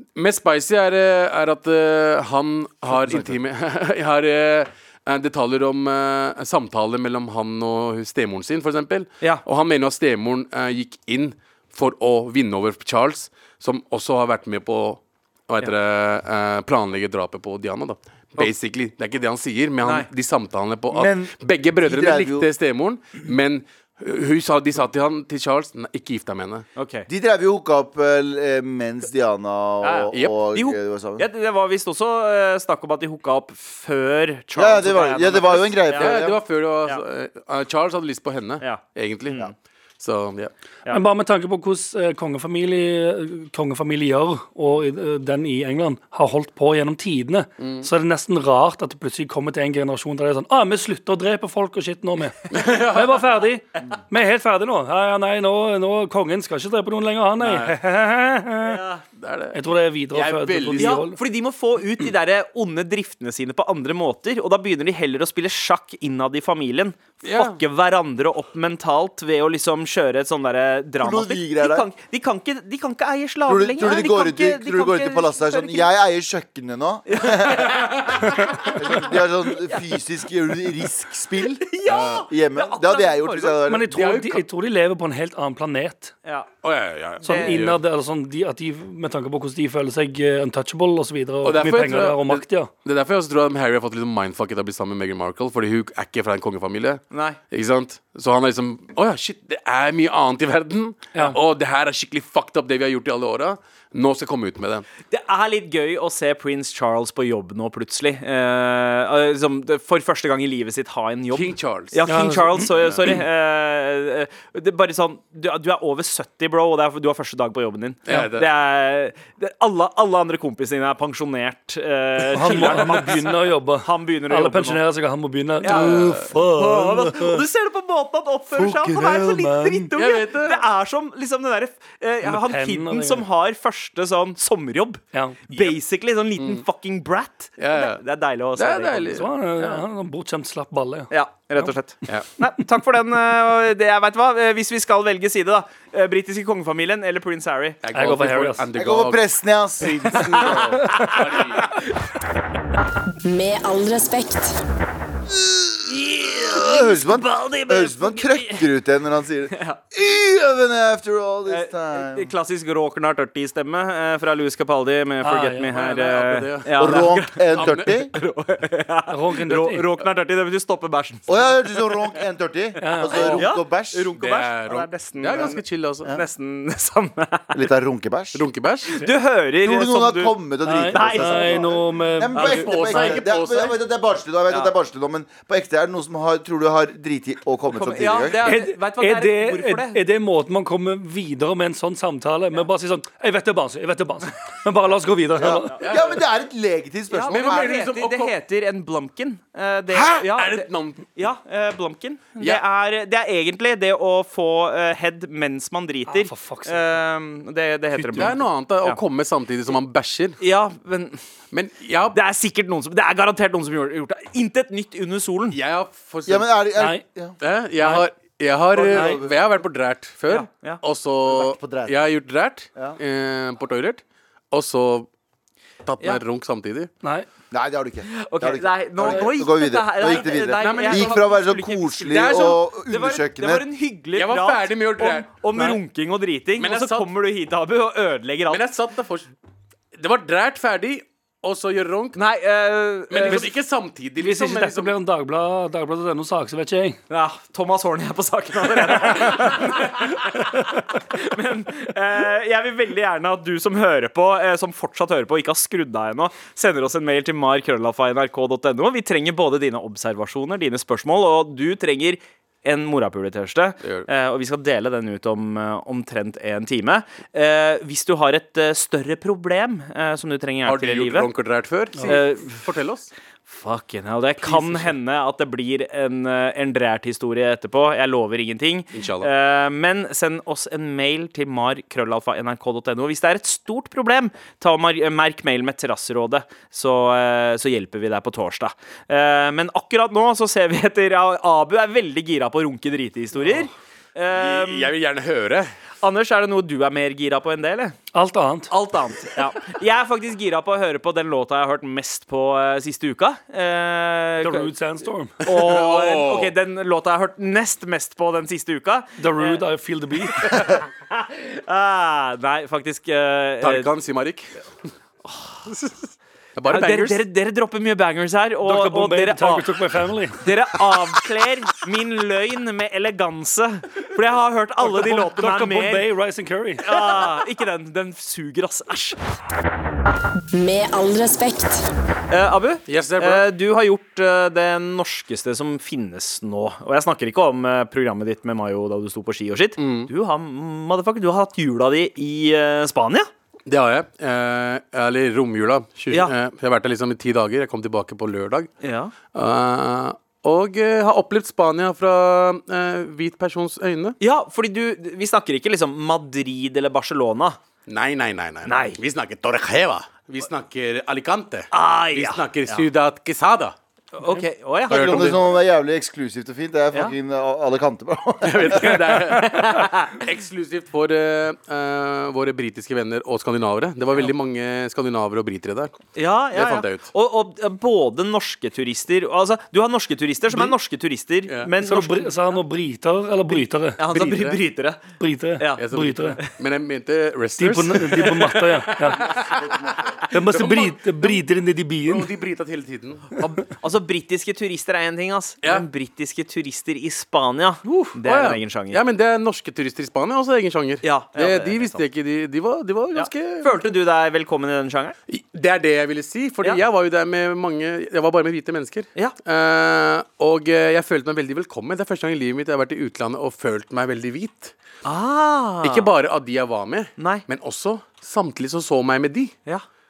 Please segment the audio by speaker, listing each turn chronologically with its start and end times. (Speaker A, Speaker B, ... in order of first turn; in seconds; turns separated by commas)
Speaker A: 0.2-26.7, Speaker B: 2.9-3.3, Speaker C: 19.8-20.1, Speaker B: 20.9-22.5, Speaker C: 26.8-27.1, Speaker B: 27.1-31.3, Speaker C: 29.8-36.1, Speaker A: 30.1-30.4, Speaker B: 34.5-36.4, Speaker A: 36.0-39.4, Speaker C: 38.6-39.5, Speaker A: 40.0-40.5, Speaker D: 40.9-58.8, Speaker A: 47.6-47.9, Speaker A: 52.5-53.3, Speaker A: 57.4-57.8, Speaker C: 58.6-59.0, Speaker A: 59.2-59.6, Speaker D: 59.5-61.2, Speaker A: 60.1-61.1, Speaker C: 60.8-75.9, Speaker A: 67.2-67.6, Speaker B: 71.0-71.9, Speaker B: 73.5-77.8, Speaker C: 77.1-78.8, Speaker B: 78.7-81.8, Speaker C: 81.6-83.6, Speaker A: 81.9-82.3, Speaker B: 82.3-84.1, Speaker D: 83.7-86.1, Speaker A: 83.9-84.4, Speaker C: 86.2-86.5, Speaker A: 86.6-87.8, Speaker C: 87.2-87.6, Speaker D: 87.2-92.7, Speaker A: 91.4-104.9, Speaker C: 97.1-97.4, Speaker C: 105.1-124.8, Speaker A: 111.3-112.0, Speaker D: 112.1-112.7, Speaker A: 112.8-113.1, Speaker A: 118.1-118.5, Speaker D: 122.3-127.4, Speaker A: 122.5-123.0, Speaker C: 125.6-139.8, Speaker A: 125.6-126.3, Speaker D: 128.6-129.9, Speaker A: 129.9-130.7, Speaker D: 132.2-133.2, Speaker D: 135.1-135.4, Speaker A: 136.4-136.6, Speaker A: 137.6-138.0, Speaker A: 138.6-139.3, Speaker D: 139.1-141.7, Speaker C: 141.1-147.8, Speaker A: 147.8-149.2, Speaker D: 147.9-148.7, Speaker B: 148.8-150.8, Speaker A: 149.8-151.7, Speaker C: 150.2-151.8, Speaker E: 153.2-154.6, Speaker B: 155.3-162.3, Speaker C: 155.9-158.7, Speaker C: 159.5-159.8, Speaker C: 161.5-172.0, Speaker D: 165.2-165.8, Speaker A: 165.7-168.0, Speaker B: 166.8-168.1, Speaker D: 169.1-169.9, Speaker B: 171.3-174.1, Speaker D: 172.8-173.3, Speaker C: 172.9-177.6, Speaker A: 173.2-173.5, Speaker A: 174.2-176.1, Speaker B: 177.5-178.4, Speaker A: 178.3-178.9, Speaker C: 178.9-180.4, Speaker B: 179.6-188.4, Speaker D: 180.7-183.2, Speaker C: 180.9-181.7, Speaker C: 182.3-182.6, Speaker A: 182.4-183.8, Speaker C: 187.7-190.0, Speaker D: 188.4-195.8, Speaker B: 195.4-197.8, Speaker C: 195.7-196.0, Speaker A: 195.8-196.1, Speaker C: 197.1-209.0, Speaker A: 197.3-198.3, Speaker A: 199.9-201.0, Speaker D: 206.1-206.9, Speaker A: 208.0-210.4, Speaker C: 210.4-211.2, Speaker A: 211.5-212.2, Speaker C: 212.1-215.6, Speaker A: 215.5-216.5, Speaker B: 216.3-217.4, Speaker D: 216.8-217.0, Speaker A: 217.4-225.1, Speaker B: 218.7-219.4, Speaker C: 220.3-220.8, Speaker B: 221.3-221.9, Speaker A: 225.8-226.9, Speaker B: 227.5-233.7, Speaker C: 228.1-238.6, Speaker A: 230.1-231.3, Speaker A: 232.1-232.6, Speaker A: 234.2-235.3, Speaker A: 236.6-237.1, Speaker A: 238.5-239.3, Speaker A: 240.0-242.2, Speaker C: 242.2-243.5, Speaker A: 243.1-244.9, Speaker D: 244.2-247.0, Speaker C: 247.1-271.3, Speaker D: 249.2-249.5, Speaker D: 250.5-250.8, Speaker A: 263.8-264.1, Speaker A: 270.6-273.1, Speaker C: 272.1-272.6, Speaker C: 273.5-294.9, Speaker A: 274.4-274.9, Speaker A: 278.9-279.3, Speaker A: 294.3-295.7, Speaker C: 296.0-298.0, Speaker D: 298.1-298.7, Speaker C: 298.7-304.7, Speaker D: 304.4-305.4, Speaker A: 305.4-306.5, Speaker C: 305.4-309.6, Speaker D: 309.2-310.6, Speaker C: 310.4-313.9, Speaker A: 313.6-314.5, Speaker A: 315.7-316.0, Speaker A: 316.6-317.2, Speaker C: 316.7-319.7, Speaker D: 318.6-320.4, Speaker C: 320.4-326.1, Speaker D: 324.8-326.9, Speaker C: 326.8-329.2, Speaker E: 330.5-331.9, Speaker C: 332.3-343.3, Speaker A: 332.9-333.5, Speaker A: 339.8-340.1, Speaker A: 343.7-348.7, Speaker C: 348.8-349.1, Speaker A: 349.3-354.2, Speaker C: 354.2-357.6, Speaker A: 357.9-363.8, Speaker C: 358.7-359.0, Speaker C: 361.7-362.9, Speaker C: 364.2-365.5, Speaker A: 364.9-365.4, Speaker B: 364.9-368.9, Speaker A: 368.4-375.9, Speaker C: 369.2-370.1, Speaker C: 376.1-382.4, Speaker A: 376.5-377.1, Speaker D: 381.8-384.0, Speaker C: 384.0-385.0, Speaker A: 384.1-384.6, Speaker D: 385.2-386.4, Speaker C: 385.6-385.8, Speaker A: 385.8-391.4, Speaker D: 387.6-389.2, Speaker B: 389.5-390.2, Speaker D: 390.3-392.3, Speaker A: 392.1-393.3, Speaker C: 393.4-399.0, Speaker A: 397.9-403.8, Speaker C: 401.0-402.0, Speaker C: 403.1-405.2, Speaker A: 405.3-414.7, Speaker C: 415.1-416.1, Speaker A: 415.8-419.5, Speaker C: 417.2-417.4